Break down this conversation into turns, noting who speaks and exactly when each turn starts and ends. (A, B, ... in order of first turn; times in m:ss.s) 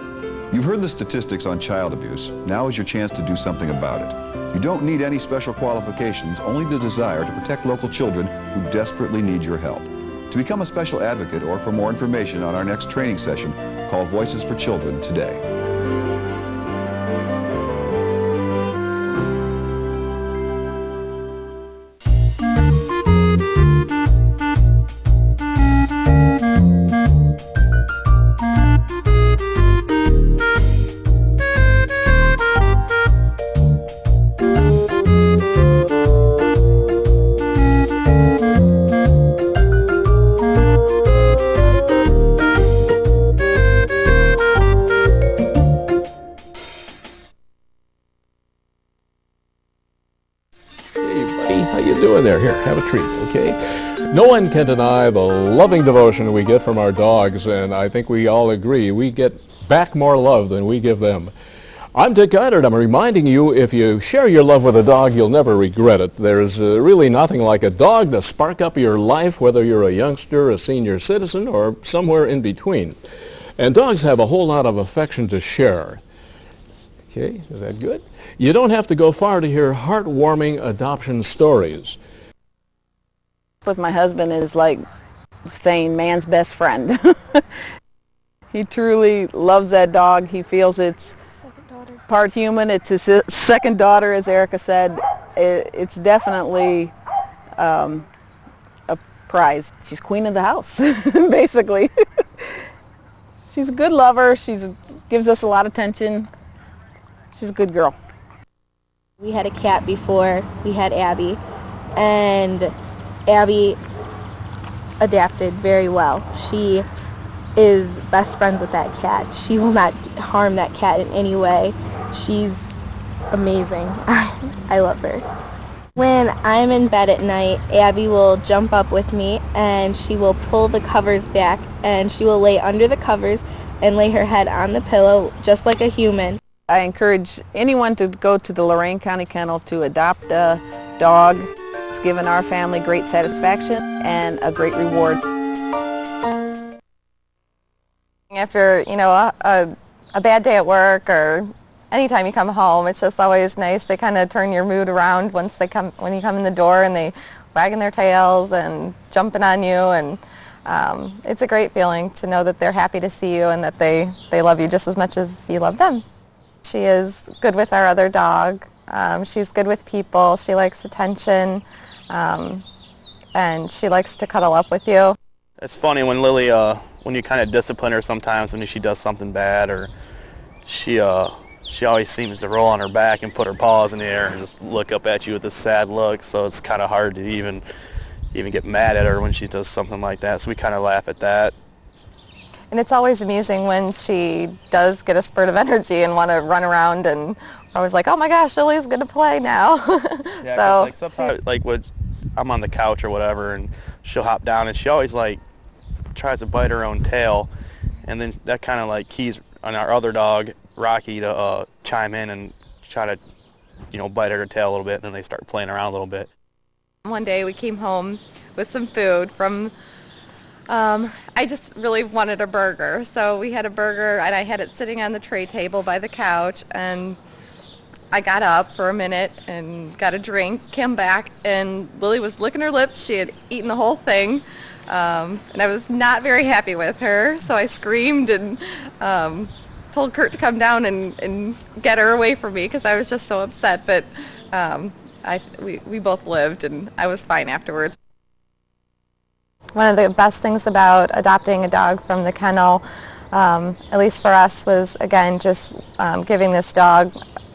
0:00.5-0:15.4 A
0:51.0-1:01.3 B
1:01.9-1:13.0 B
1:13.6-1:16.0 B
1:17.1-1:22.0 B
1:23.6-1:24.8 C
1:25.4-1:27.4 C
1:28.5-1:31.2 C
1:31.8-1:36.9 C
1:37.6-1:38.0 C
1:38.9-1:42.5 C
1:43.5-1:46.3 C
1:47.3-1:48.0 C
1:49.2-1:51.4 D
1:52.0-1:52.7 D
1:53.3-1:53.8 D
1:55.0-1:56.9 D
1:57.6-2:02.8 D
2:03.3-2:05.3 D
2:06.0-2:16.4 D
2:16.7-2:25.2 C
2:28.3-2:46.0 E
2:46.6-2:52.6 E
2:53.3-2:55.2 E
2:55.6-2:59.9 F
3:00.6-3:07.6 F
3:08.3-3:11.5 F
3:12.7-3:21.3 E
3:20.4-3:21.8 F
3:22.4-3:25.4 F
3:26.1-3:27.5 F
3:28.0-3:33.2 F
3:33.9-3:36.3 F
3:37.0-3:39.7 E
3:40.7-3:47.2 E
3:48.1-4:07.9 E
4:09.7-4:17.2 E